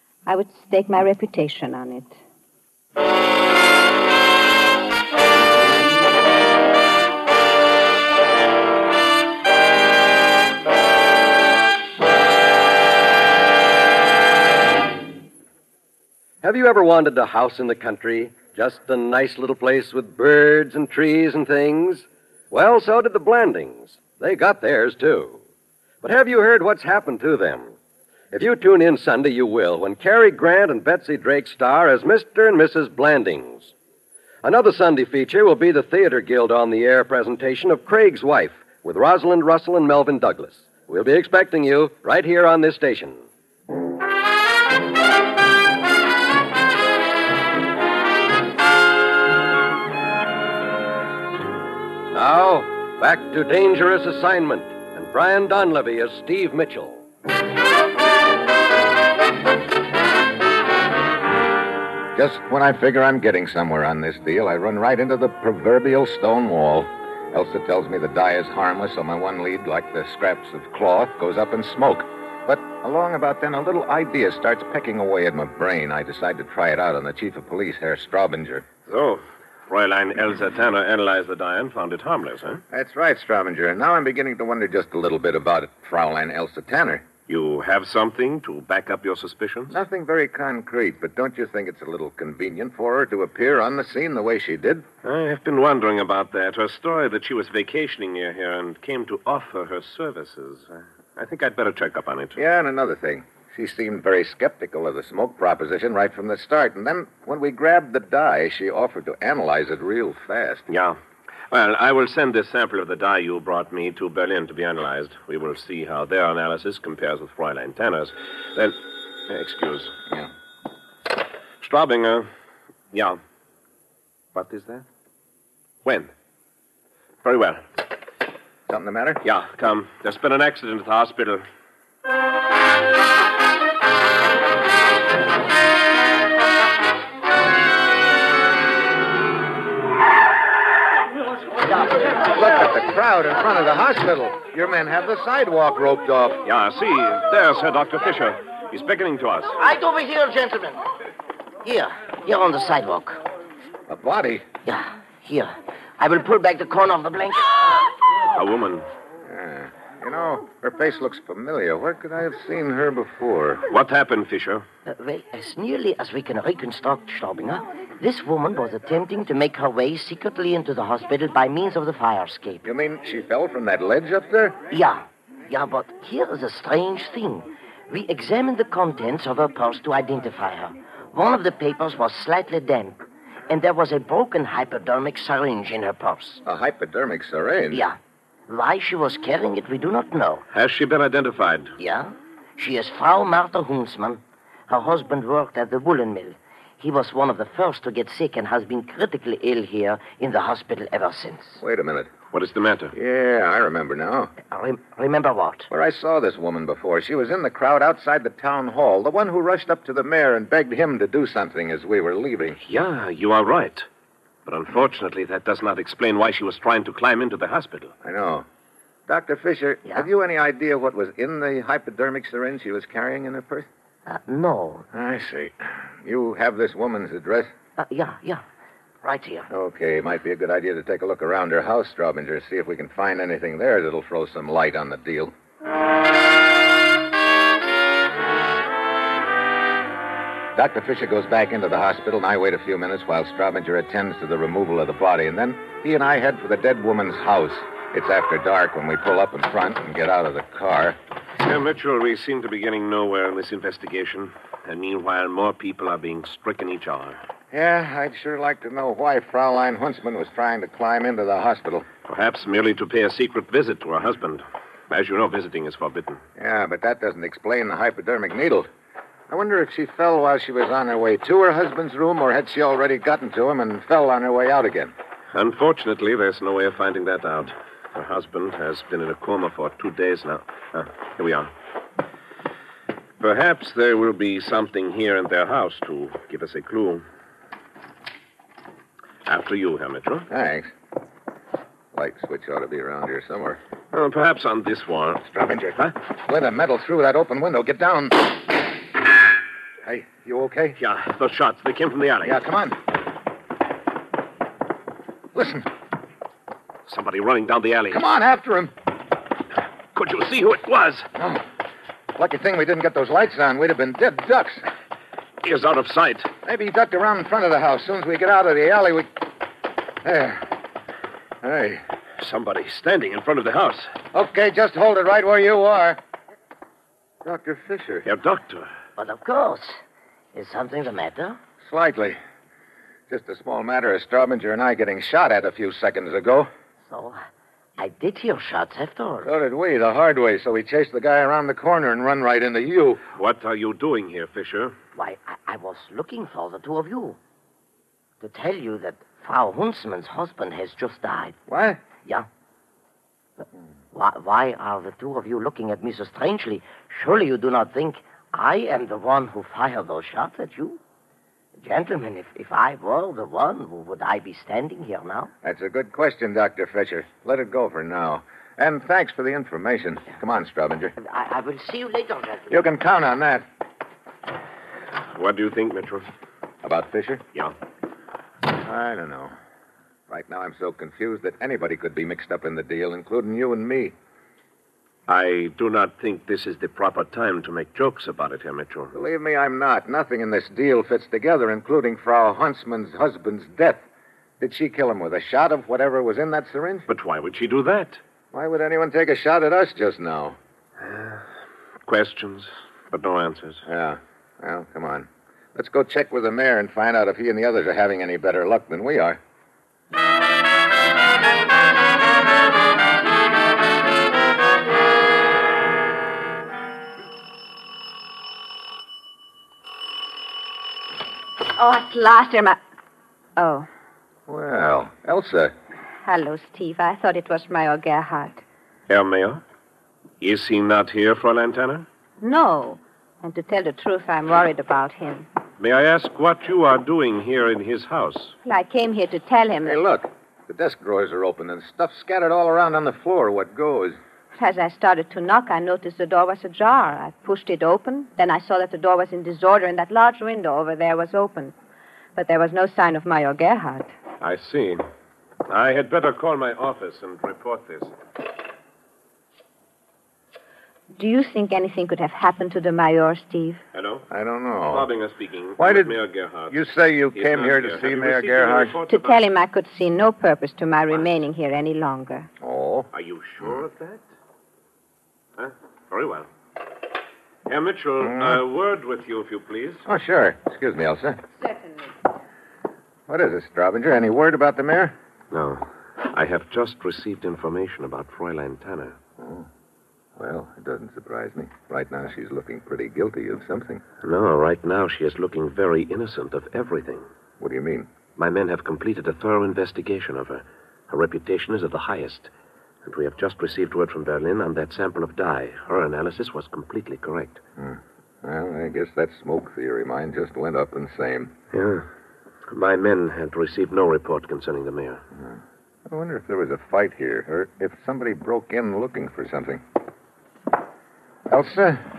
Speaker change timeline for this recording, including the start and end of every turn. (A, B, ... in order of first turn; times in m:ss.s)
0:00.2-0:02.2 A
0:16.4-0:25.4 B
0:26.0-0:27.7 B
0:28.3-0:33.7 B
0:34.4-0:43.2 B
0:52.1-0:57.0 B
1:02.1-1:18.6 C
1:18.8-1:22.6 D
1:22.7-1:27.0 C
1:27.3-1:29.7 D
1:29.7-1:34.8 C
1:35.0-1:42.4 D
1:42.4-1:50.7 C
1:50.7-1:51.0 D
1:51.5-1:59.9 D
2:01.6-2:02.3 D
2:02.9-2:03.2 D
2:04.3-2:04.8 D
2:05.8-2:06.1 D
2:07.2-2:07.6 D
2:08.7-2:09.2 C
2:09.2-2:11.4 D
2:22.0-2:26.4 C
2:26.4-2:29.5 D
2:29.6-2:30.8 E
2:31.6-2:33.2 E
2:33.9-2:34.4 C
2:34.6-2:37.6 E
2:38.3-2:38.8 D
2:39.2-2:43.6 C
2:43.7-2:44.6 D
2:44.8-2:52.6 E
2:52.6-2:54.6 C
2:54.7-3:06.4 E
3:06.4-3:07.8 C
3:07.7-3:08.0 E
3:08.5-3:10.4 E
3:10.5-3:11.7 D
3:11.8-3:21.6 E
3:21.6-3:22.1 C
3:22.3-3:22.9 D
3:22.9-3:24.3 C
3:24.4-3:25.7 E
3:25.7-3:32.6 C
3:32.6-3:33.9 D
3:34.4-3:37.9 D
3:38.0-3:38.4 C
3:39.1-3:43.7 C
3:44.0-3:44.8 E
3:44.9-3:47.5 C
3:47.8-3:48.4 E
3:49.0-3:49.5 E
3:49.5-3:55.3 C
4:00.5-4:11.0 C
4:11.4-4:17.2 D
4:17.5-4:21.9 C
4:22.0-4:26.2 D
4:26.4-4:28.7 C
4:29.3-4:34.9 C
4:35.3-4:41.5 D
4:43.2-4:47.0 D
4:49.2-4:50.3 D
4:50.3-4:50.7 C
4:51.9-4:53.6 C
4:53.9-4:55.2 D
4:55.2-4:58.3 C
4:59.8-5:00.8 C
5:00.8-5:02.4 D
5:02.2-5:02.8 C
5:05.3-5:05.7 C
5:06.9-5:08.0 D
5:07.9-5:08.7 C
5:09.9-5:11.1 D
5:11.2-5:11.4 C
5:12.2-5:14.6 C
5:15.4-5:16.3 D
5:16.4-5:19.1 C
5:20.0-5:20.5 C
5:21.4-5:21.8 C
5:22.2-5:23.9 D
5:24.1-5:26.0 C
5:27.2-5:28.1 C
5:28.0-5:28.7 D
5:29.0-5:29.8 E
5:30.3-5:31.4 E
5:31.6-5:32.2 C
5:33.1-5:36.5 C
5:36.8-5:37.2 E
5:37.8-5:39.3 E
5:39.2-5:43.0 C
5:43.2-5:44.7 D
5:44.9-5:47.2 E
5:48.2-5:51.4 E
5:51.5-5:51.8 C
5:53.9-6:00.8 E
6:01.6-6:05.3 E
6:05.4-6:10.9 C
6:11.0-6:12.6 E
6:12.5-6:13.4 C
6:15.1-6:16.1 D
6:16.6-6:17.2 C
6:18.5-6:19.3 C
6:20.1-6:23.9 C
6:25.1-6:28.9 D
6:28.9-6:33.8 C
6:34.4-6:36.9 C
6:36.9-6:38.0 D
6:38.3-6:40.4 C
6:40.8-6:41.2 D
6:41.8-6:43.6 D
6:43.6-6:49.2 C
7:01.5-7:02.6 A
7:03.4-7:03.7 A
7:04.3-7:05.5 C
7:06.0-7:08.4 A
7:08.9-7:09.4 D
7:10.2-7:11.8 D
7:12.2-7:15.3 A
7:15.6-7:18.3 D
7:18.4-7:19.8 A
7:19.6-7:24.0 C
7:24.3-7:31.5 A
7:32.2-7:33.9 A
7:34.2-7:34.8 D
7:35.5-7:37.9 D
7:40.9-7:43.6 A
7:43.7-7:44.0 D
7:44.1-7:44.8 C
7:44.7-7:46.6 D
7:45.6-7:48.7 C
7:47.1-7:49.2 D
7:48.9-7:52.3 A
7:52.4-7:52.9 C
7:52.9-7:54.0 D
7:55.4-7:56.3 D
7:57.5-7:59.8 D
7:58.0-7:58.4 C
7:59.8-8:01.2 C
8:01.4-8:02.0 A
8:03.1-8:04.9 C
8:05.3-8:09.0 D
8:09.2-8:09.5 C
8:10.2-8:13.8 C
8:14.0-8:17.1 D
8:17.4-8:17.9 C
8:18.2-8:22.3 D
8:22.8-8:27.4 D
8:27.6-8:31.3 C
8:31.5-8:31.8 D
8:32.5-8:35.0 D
8:35.2-8:39.6 C
8:41.3-8:41.8 C